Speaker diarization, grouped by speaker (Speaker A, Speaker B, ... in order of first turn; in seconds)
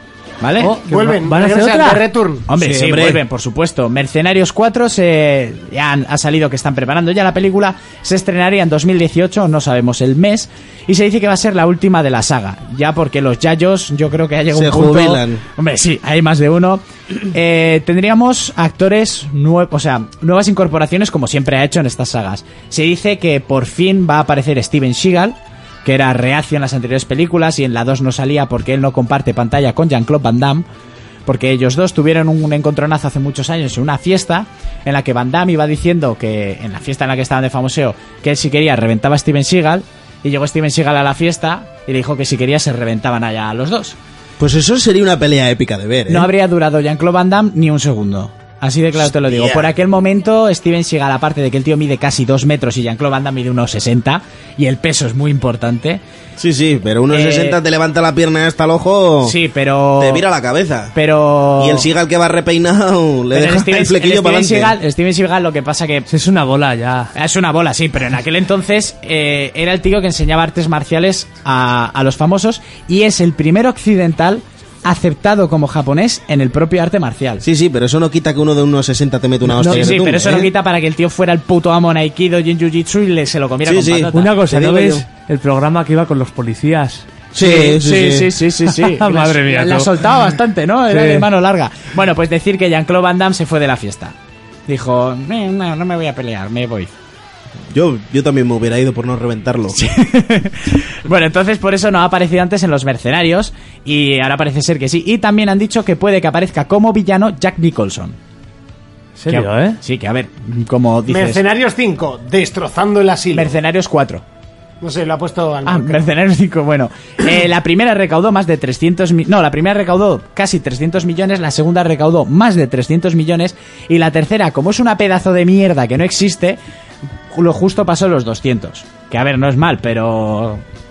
Speaker A: 0.4-0.8, 2.5-30.6, 31.3-44.0, 46.1-56.0, 57.1-57.6, 59.2-60.2, 60.9-61.9, 63.3-66.1, 67.1-77.4, 79.6-84.3, 87.4-94.2, 94.7-96.9, 99.7-108.2, 109.3-111.4, 113.3-114.2, 115.6-126.6, 127.3-130.6
Speaker B: 0.6-2.0, 66.1-67.1, 79.6-80.0, 84.1-87.1, 88.7-90.0, 90.9-91.3, 109.2-109.8
Speaker C: 0.8-2.5, 111.1-113.5, 114.8-116.0
Speaker D: 2.5-3.2, 14.5-15.4, 44.4-46.3, 49.0-49.7, 56.4-59.4, 60.0-60.9, 61.6-64.8, 77.4-80.5, 83.6-85.0, 87.3-88.3, 97.7-99.8